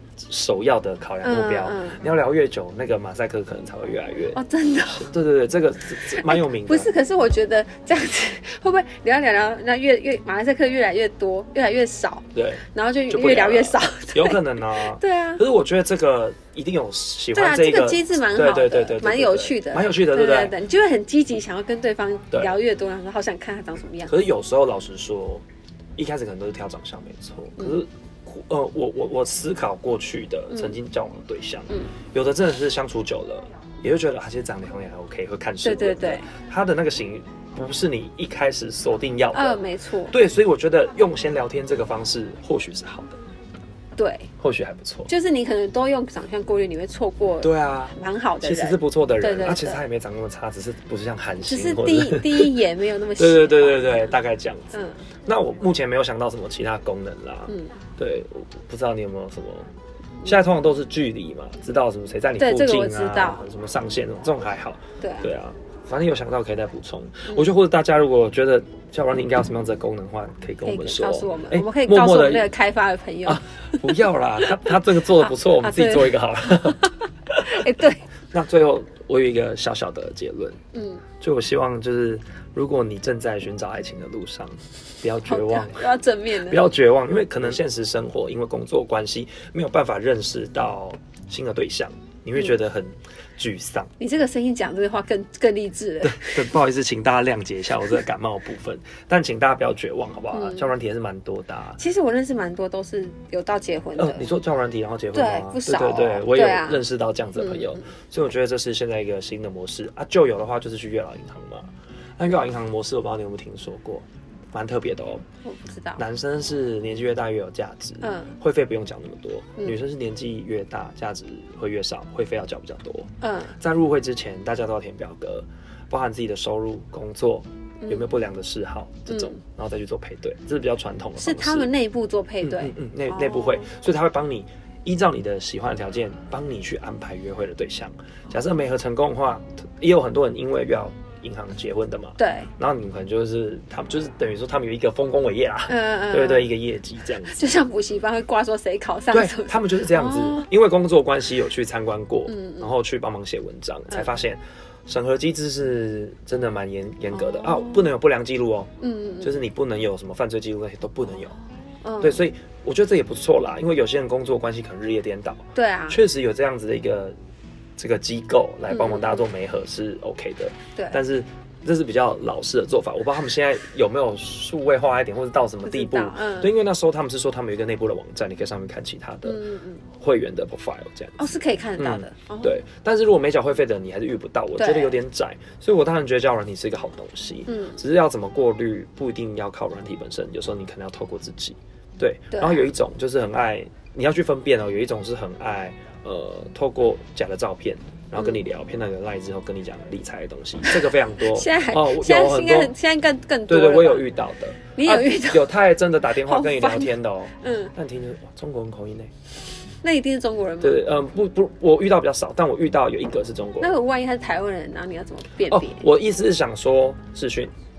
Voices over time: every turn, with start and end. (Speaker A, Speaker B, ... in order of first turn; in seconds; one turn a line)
Speaker A: 0.2-6.9
Speaker B: 1.2-2.0
Speaker B: 4.3-5.1
Speaker B: 6.1-15.4
Speaker A: 12.3-20.5
Speaker B: 17.3-24.1
Speaker A: 24.1-25.4
Speaker A: 26.0-43.2
Speaker B: 30.5-30.8
Speaker B: 35.6-36.3
Speaker B: 39.3-40.1
Speaker B: 44.0-44.3
Speaker A: 44.4-45.1
Speaker B: 45.1-49.8
Speaker A: 47.4-52.5
Speaker B: 51.5-54.1
Speaker A: 53.2-54.7
Speaker B: 54.7-55.0
Speaker A: 55.3-59.7
Speaker B: 57.5-57.7
Speaker A: 60.2-72.5
Speaker B: 62.4-63.4
Speaker B: 65.0-65.3
Speaker B: 70.6-78.0
Speaker A: 73.2-77.6
Speaker A: 78.3-80.6
Speaker B: 80.7-81.0
Speaker A: 81.2-85.8
Speaker B: 85.2-86.7
Speaker A: 86.4-93.9
Speaker B: 94.0-96.5
Speaker A: 96.0-101.8
Speaker B: 100.3-100.7
Speaker B: 101.8-104.3
Speaker A: 104.0-115.2
Speaker B: 105.1-106.8
Speaker B: 107.3-107.8
Speaker B: 115.4-116.0
Speaker A: 116.0-131.7
Speaker B: 118.0-118.3
Speaker B: 123.2-123.6
Speaker B: 129.1-129.4
Speaker B: 131.2-133.7
Speaker A: 132.4-147.5
Speaker B: 142.2-142.5
Speaker B: 145.7-146.5
Speaker B: 147.2-150.5
Speaker A: 149.1-158.7
Speaker B: 152.3-152.7
Speaker B: 157.1-157.9
Speaker B: 158.8-159.3
Speaker A: 159.2-161.3
Speaker B: 161.1-162.2
Speaker A: 162.0-167.1
Speaker B: 165.5-166.0
Speaker A: 167.8-181.2
Speaker B: 168.7-169.2
Speaker B: 175.7-176.5
Speaker B: 179.2-179.8
Speaker B: 181.2-182.5
Speaker A: 181.8-202.7
Speaker B: 184.6-185.0
Speaker B: 187.5-187.8
Speaker B: 192.3-192.7
Speaker B: 198.2-198.4
Speaker B: 201.2-204.1
Speaker A: 203.5-209.1
Speaker B: 204.8-205.5
Speaker B: 206.2-207.7
Speaker B: 209.8-210.8
Speaker A: 210.6-213.7
Speaker B: 213.6-215.8
Speaker A: 215.5-217.5